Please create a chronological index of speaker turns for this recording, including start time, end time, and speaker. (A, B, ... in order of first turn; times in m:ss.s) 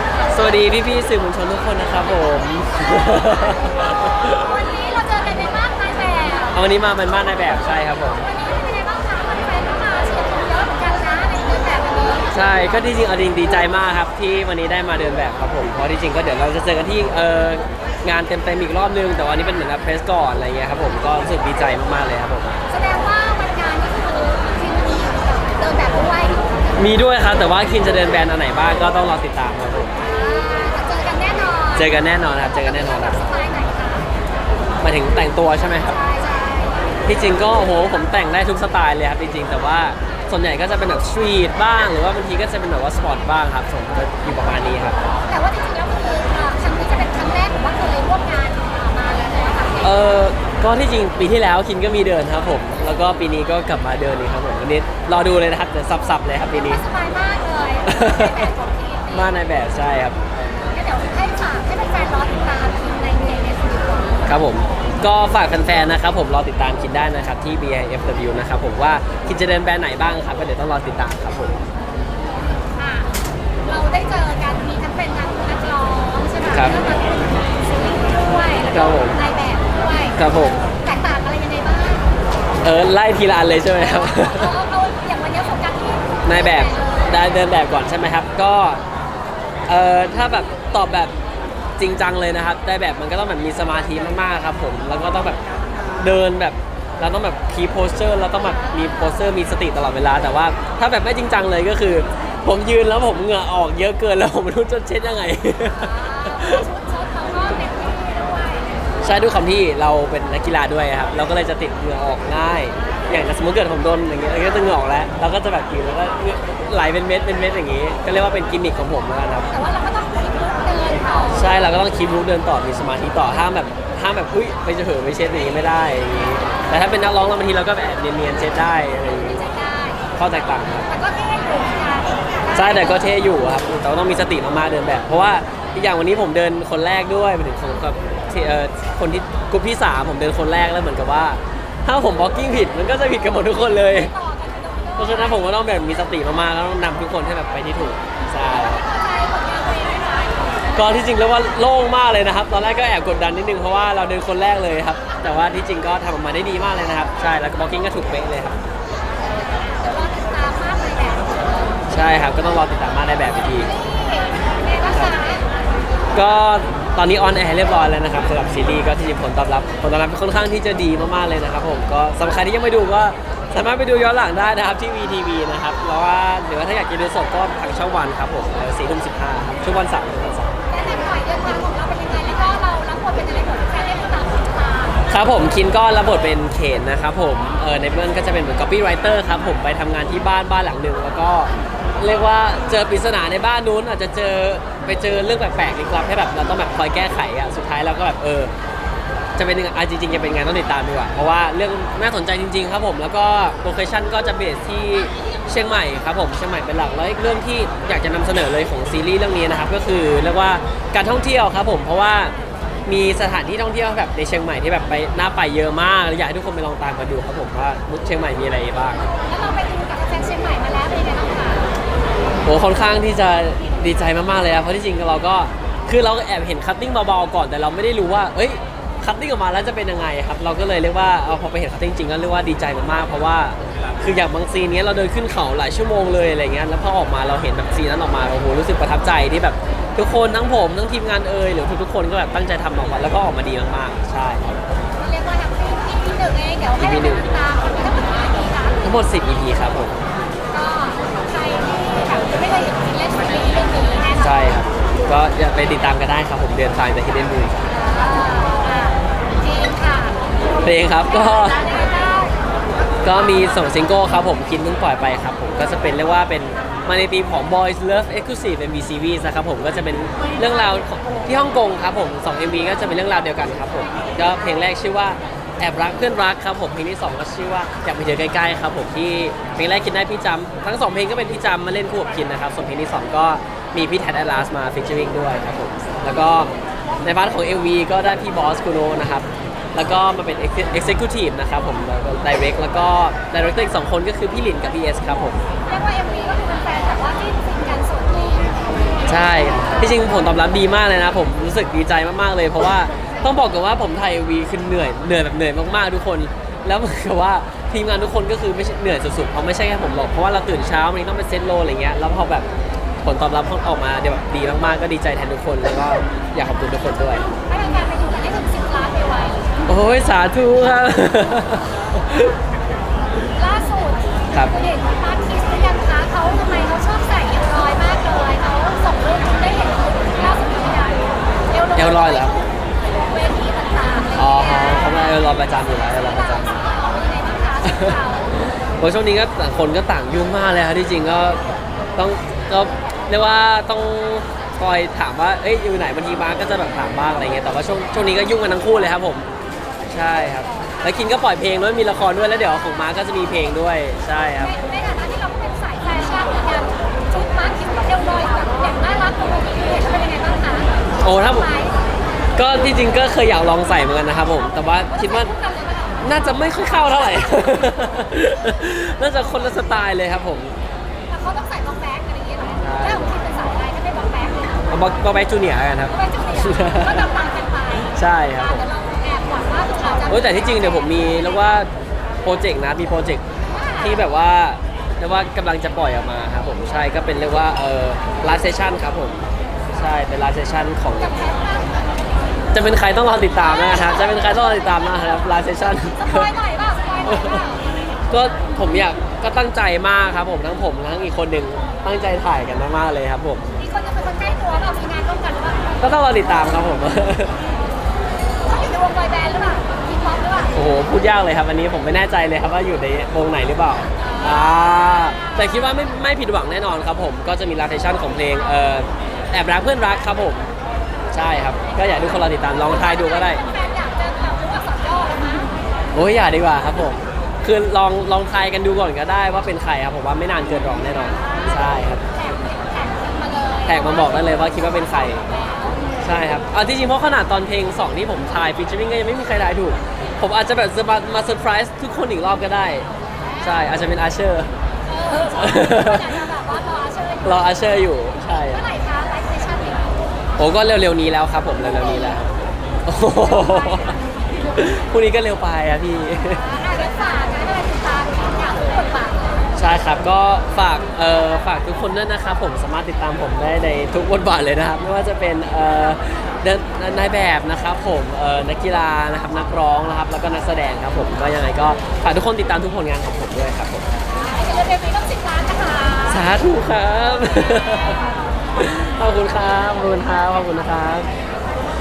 0:00.3-0:04.4 A
0:04.3-0:06.6 B
0:06.5-0:08.2 A
0:08.2-0:12.4 B
0:12.3-0:22.5 A
0:22.7-0:26.4 B
0:26.8-0:29.9 A
0:30.0-0:34.1 B
0:31.7-0:33.2 A
0:34.8-0:36.0 A
0:35.8-0:37.0 B
0:37.0-0:45.0 A
0:45.3-0:50.1 B
0:49.8-0:56.8 A
0:56.5-0:59.4 B
0:57.9-0:58.5 A
0:59.1-1:00.2 A
1:00.7-1:04.2 B
1:04.3-1:11.6 A
1:12.7-1:13.1 B
1:13.6-1:22.0 B
1:16.5-1:16.8 A
1:18.7-1:19.2 A
1:20.1-1:20.6 A
1:22.6-1:24.5 A
1:23.9-1:26.9 B
1:26.2-1:28.8 A
1:29.7-1:31.1 A
1:31.8-1:35.4 A
1:36.0-1:46.7 A
1:45.8-1:48.7 B
1:49.0-1:59.5 A
1:59.5-2:01.5 B
2:01.3-2:09.4 A
2:09.2-2:10.0 B
2:10.2-2:10.9 A
2:10.9-2:13.0 B
2:12.5-2:24.1 A
2:23.9-2:25.6 B
2:25.0-2:28.8 A
2:28.4-2:30.6 B
2:30.7-2:38.6 A
2:39.3-2:41.4 B
2:41.9-2:43.7 A
2:43.6-2:45.5 B
2:46.1-3:00.6 A
3:00.7-3:05.0 B
3:05.1-3:18.5 A
3:19.4-3:32.3 A
3:32.8-3:39.0 A
3:39.1-3:41.7 B
3:42.4-4:04.6 A
4:05.0-4:08.8 B
4:06.8-4:07.2 A
4:08.8-4:10.0 A
4:10.5-4:14.5 B
4:14.2-4:17.8 A
4:17.7-4:20.2 B
4:20.6-4:21.6 A
4:21.1-4:22.4 B
4:23.0-4:55.4 A
4:55.6-4:58.5 B
4:59.1-5:12.5 A
5:13.0-5:17.2 A
5:17.4-5:19.5 B
5:19.7-5:22.3 A
5:23.3-5:35.1 B
5:31.8-5:32.3 A
5:34.1-5:36.6 A
5:36.1-5:38.3 B
5:37.6-5:41.4 A
5:42.0-5:49.2 A
5:49.9-5:54.5 A
5:54.4-6:01.7 B
6:01.0-6:01.5 A
6:02.4-6:05.3 A
6:04.8-6:07.4 B
6:06.0-6:10.5 A
6:11.1-6:14.6 B
6:12.6-6:13.2 A
6:14.7-6:17.1 A
6:15.9-6:21.0 B
6:17.8-6:18.7 A
6:20.1-6:21.7 A
6:22.2-6:23.2 A
6:23.5-6:24.0 B
6:23.8-6:29.2 A
6:29.7-6:31.1 A
6:30.9-6:31.9 B
6:32.5-6:36.3 A
6:33.4-6:34.4 B
6:36.0-6:37.6 B
6:37.0-6:37.4 A
6:38.1-6:43.4 A
6:43.6-6:45.7 B
6:45.8-6:47.3 A
6:48.4-6:50.5 B
6:50.5-7:00.5 A
6:54.0-6:55.3 B
7:01.1-7:03.4 A
7:02.7-7:05.5 B
7:05.9-7:12.0 A
7:12.1-7:15.8 B
7:13.7-7:15.2 A
7:16.0-7:22.9 A
7:23.3-7:23.6 B
7:23.4-7:24.5 A
7:24.8-7:29.9 B
7:25.3-7:26.3 A
7:27.2-7:28.6 A
7:30.4-7:32.3 A
7:32.8-7:34.0 A
7:34.5-7:36.4 A
7:36.3-7:39.4 B
7:39.6-7:53.9 A
7:54.1-7:56.2 B
7:56.1-8:01.1 A